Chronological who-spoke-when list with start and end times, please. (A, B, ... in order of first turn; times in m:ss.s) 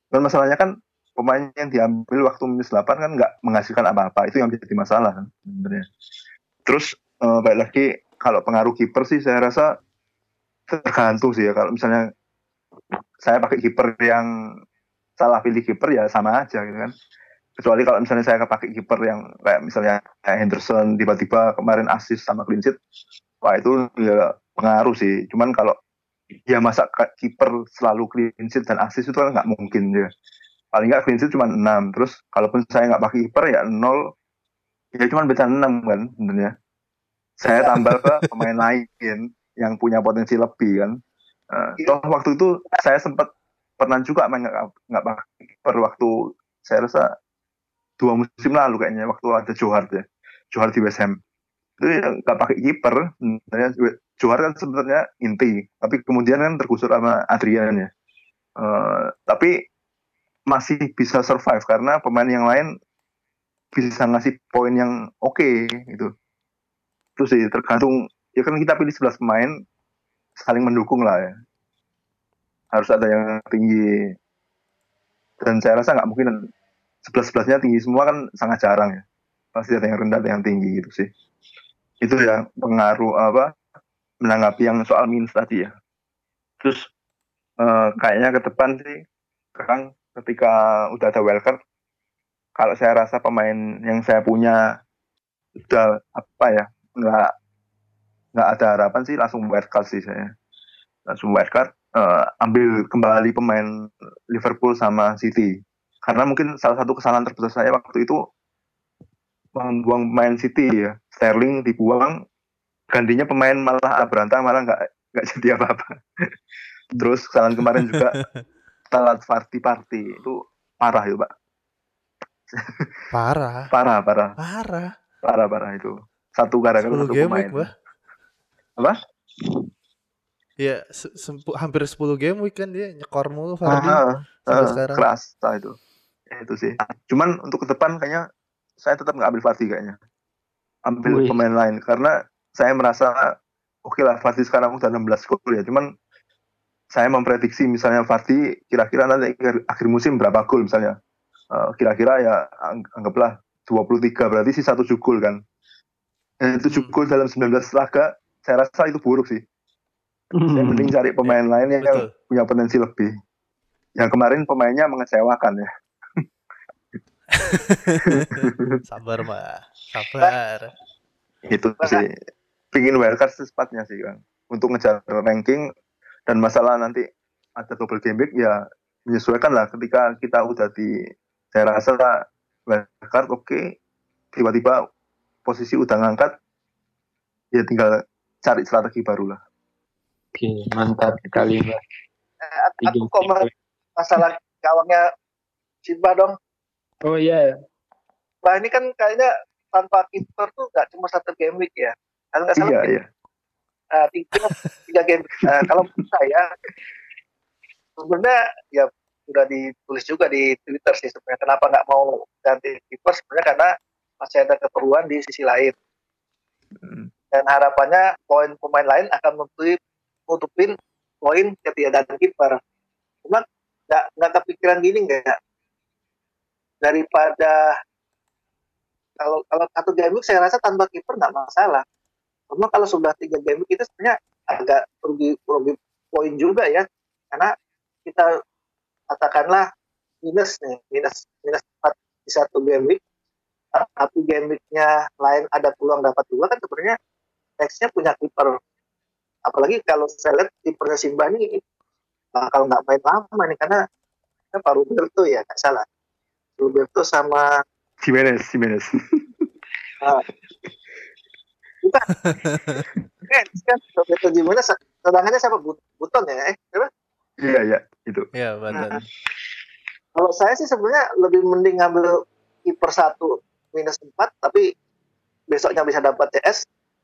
0:00.1-0:05.9 A
0:06.7-0:09.7 A
0:10.7-0:12.0 A
0:13.2-0:14.3 A
0:15.2-0:16.9 A
0:17.6-0:22.8 A
0:23.4-0:25.8 A
0:26.5-0:30.1 A
0:30.7-0:34.0 A
0:35.0-0:36.5 A
0:37.4-0:41.0 A
0:41.5-0:46.1 A
0:46.6-0:47.1 A
0:48.0-0:51.2 A
0:51.8-0:57.9 A
0:58.6-0:59.5 A
1:00.5-1:02.7 A
1:03.7-1:06.1 A
1:07.2-1:09.6 A
1:10.4-1:11.3 A
1:12.7-1:13.8 A
1:15.4-1:16.4 A
1:17.0-1:19.0 A
1:19.6-1:21.1 A
1:22.0-1:23.5 A
1:24.2-1:25.7 A
1:26.6-1:26.9 A
1:27.6-1:29.0 A
1:29.6-1:31.6 A
1:32.6-1:34.6 A
1:35.6-1:37.3 A
1:38.3-1:40.3 A
1:41.1-1:48.2 A
1:49.6-1:52.2 A
1:52.9-1:56.0 A
1:57.0-1:58.2 A
1:58.9-2:01.3 A
2:02.5-2:03.0 A
2:03.1-2:03.7 B
2:03.7-2:04.4 A
2:04.4-2:04.9 B
2:05.2-2:07.7 A
2:06.9-2:07.7 B
2:08.8-2:09.7 A
2:10.6-2:15.0 B
2:13.7-2:15.8 A
2:16.3-2:18.2 A
2:18.8-2:20.0 A
2:20.9-2:23.3 A
2:21.0-2:21.4 C
2:23.9-2:25.9 A
2:26.9-2:31.0 A
2:31.5-2:35.4 A
2:36.4-2:39.4 A
2:36.6-2:36.9 B
2:40.4-2:40.9 C
2:40.5-2:43.1 A
2:41.2-2:42.1 B
2:44.0-2:45.7 A
2:47.3-2:50.7 B
2:48.0-2:48.8 A
2:51.5-2:52.1 A
2:52.7-2:55.7 A
2:56.3-2:57.0 A
2:57.6-3:00.9 A
3:01.5-3:03.7 A
3:04.3-3:04.8 A
3:05.4-3:06.3 A
3:07.5-3:09.4 A
3:10.4-3:11.8 C
3:12.4-3:15.0 D
3:12.8-3:13.5 C
3:15.9-3:16.3 D
3:17.1-3:17.5 C
3:18.4-3:22.8 D
3:22.6-3:23.0 A
3:24.0-3:26.5 D
3:28.0-3:33.7 D
3:34.2-3:35.7 D
3:36.8-3:37.1 A
3:37.3-3:39.8 D
3:40.3-3:42.6 D
3:43.2-3:45.4 D
3:46.8-3:47.6 D
3:49.2-3:51.8 D
3:52.5-3:57.5 D
3:59.1-3:59.7 D
4:00.2-4:03.0 D
4:03.8-4:07.0 D
4:07.6-4:08.6 D
4:09.5-4:11.6 D
4:12.4-4:13.8 D
4:14.5-4:15.8 D
4:16.6-4:17.4 D
4:18.0-4:19.2 A
4:22.2-4:22.8 B
4:23.3-4:26.9 D
4:27.4-4:29.0 A
4:28.3-4:29.0 B
4:30.2-4:32.2 D
4:32.7-4:34.7 D
4:35.5-4:36.6 D